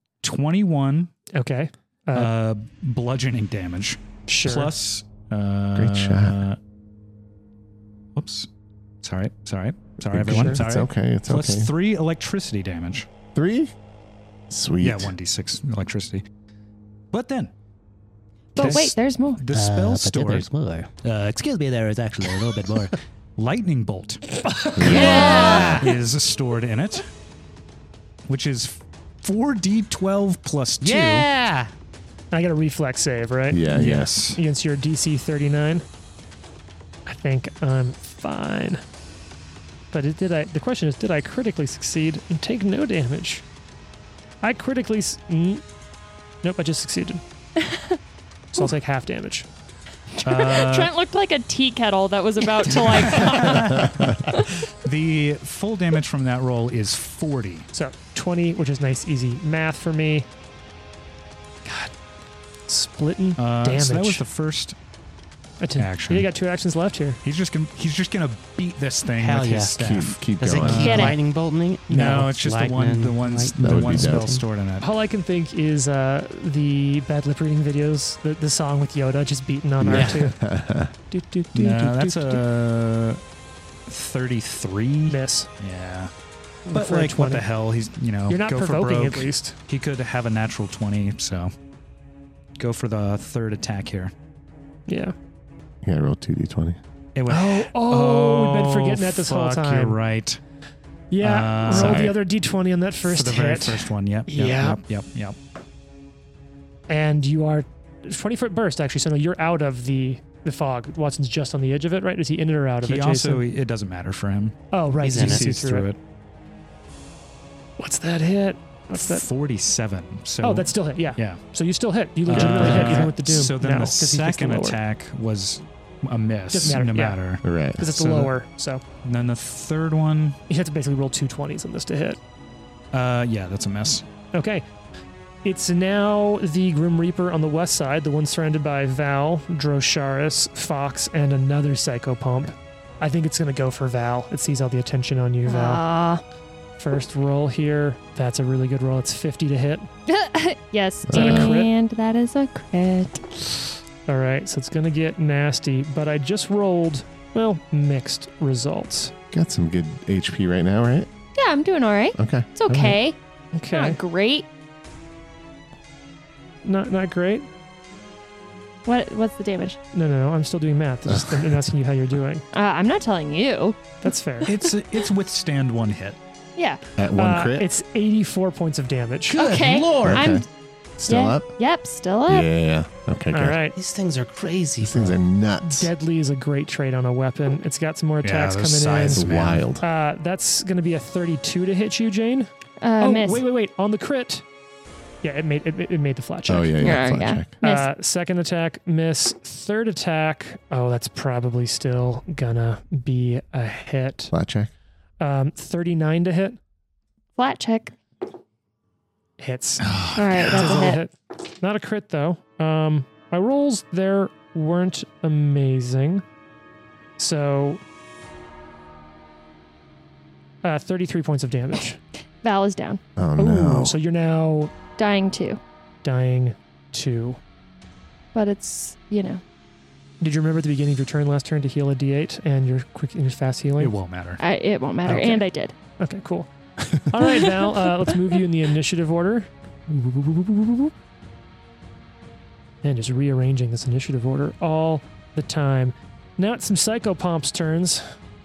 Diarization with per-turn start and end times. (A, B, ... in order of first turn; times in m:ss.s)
0:00.2-0:01.1 A
0:01.3-0:02.3 B
0:02.1-0:06.6 A
0:04.3-0:04.7 B
0:05.8-0:06.4 C
0:08.2-0:08.5 A
0:09.0-0:13.1 A
0:10.0-0:11.7 C
0:10.3-0:10.6 B
0:13.4-0:13.7 C
0:14.5-0:15.1 C
0:14.8-0:16.2 A
0:17.1-0:17.5 A
0:18.6-0:19.4 D
0:18.6-0:20.5 A
0:19.5-0:20.9 E
0:21.0-0:27.1 A
0:22.3-0:22.6 E
0:24.8-0:25.8 C
0:24.8-0:25.8 D
0:24.9-0:25.9 E
0:28.3-0:31.3 A
0:30.8-0:31.7 E
0:32.3-0:35.9 B
0:33.5-0:34.3 C
0:33.7-0:34.4 A
0:37.1-0:38.8 B
0:39.9-0:43.4 B
0:44.4-0:45.6 B
0:46.4-0:47.2 B
0:47.6-0:48.0 D
0:48.5-0:49.5 B
0:50.2-0:54.6 D
0:50.2-0:50.9 A
0:52.7-0:57.7 A
0:53.4-0:54.1 C
0:57.7-1:00.3 B
1:01.6-1:01.9 B
1:02.7-1:04.2 B
1:03.4-1:04.8 A
1:05.6-1:07.2 B
1:05.8-1:06.3 A
1:07.2-1:11.2 A
1:09.2-1:14.4 E
1:09.8-1:11.1 C
1:10.7-1:11.2 D
1:11.9-1:14.9 A
1:11.9-1:12.2 B
1:13.6-1:14.3 C
1:14.8-1:20.4 B
1:19.8-1:20.9 C
1:19.9-1:20.2 E
1:21.1-1:22.4 B
1:21.5-1:23.2 A
1:23.9-1:26.1 A
1:25.1-1:25.5 B
1:26.7-1:27.5 B
1:26.7-1:31.5 A
1:28.3-1:29.6 B
1:32.6-1:34.1 A
1:34.9-1:35.2 B
1:35.8-1:36.8 C
1:37.2-1:40.4 A
1:37.3-1:40.0 B
1:41.1-1:44.8 B
1:41.2-1:42.1 A
1:41.7-1:42.2 C
1:43.0-1:45.4 A
1:46.9-1:53.5 B
1:52.8-1:54.6 A
1:54.7-1:55.9 B
1:55.0-1:55.5 E
1:55.2-1:56.0 A
1:57.8-1:59.3 B
1:59.0-2:01.4 A
2:00.4-2:04.8 B
2:02.2-2:08.3 A
2:02.3-2:03.2 E
2:06.5-2:07.2 B
2:07.4-2:07.8 C
2:07.8-2:08.8 B
2:09.0-2:10.4 A
2:10.5-2:12.2 B
2:12.9-2:14.0 A
2:14.3-2:14.7 B
2:15.4-2:25.8 B
2:25.5-2:26.2 D
2:26.8-2:29.9 B
2:30.1-2:33.6 D
2:31.0-2:31.6 C
2:31.1-2:31.7 B
2:34.1-2:39.1 B
2:39.3-2:41.1 C
2:41.4-2:43.2 D
2:42.2-2:43.0 C
2:43.5-2:44.0 B
2:43.7-2:44.5 D
2:46.6-2:47.5 B
2:48.8-2:49.8 D
2:49.9-2:52.5 B
2:51.1-2:51.7 C
2:52.5-2:54.7 D
2:54.0-2:54.5 B
2:54.4-2:56.2 A
2:57.0-2:57.7 C
2:57.2-2:59.4 B
2:59.3-3:00.4 E
2:59.3-3:00.4 D
3:00.0-3:00.4 C
3:01.0-3:01.5 C
3:01.1-3:02.5 D
3:02.3-3:03.6 C
3:03.3-3:03.8 B
3:03.8-3:05.2 E
3:04.8-3:05.9 C
3:05.6-3:09.3 B
3:08.2-3:09.7 A
3:09.1-3:09.8 C
3:09.8-3:14.4 B
3:12.8-3:13.4 D
3:15.2-3:16.8 B
3:16.5-3:17.5 C
3:16.8-3:17.9 D
3:17.6-3:24.3 B
3:24.3-3:24.7 C
3:25.2-3:26.6 B
3:27.4-3:28.0 D
3:29.4-3:36.2 B
3:29.9-3:30.5 A
3:30.2-3:31.0 D
3:37.2-3:37.8 B
3:40.6-3:42.0 B
3:42.4-3:43.0 D
3:43.2-3:44.0 C
3:43.4-3:44.7 B
3:45.0-3:45.6 D
3:46.0-3:47.4 B
3:48.3-3:49.4 D
3:50.2-3:53.9 B
3:53.8-3:54.4 A
3:54.4-3:55.7 D
3:55.1-3:55.4 B
3:55.1-3:55.4 A
3:56.0-4:00.9 B
4:02.8-4:08.1 B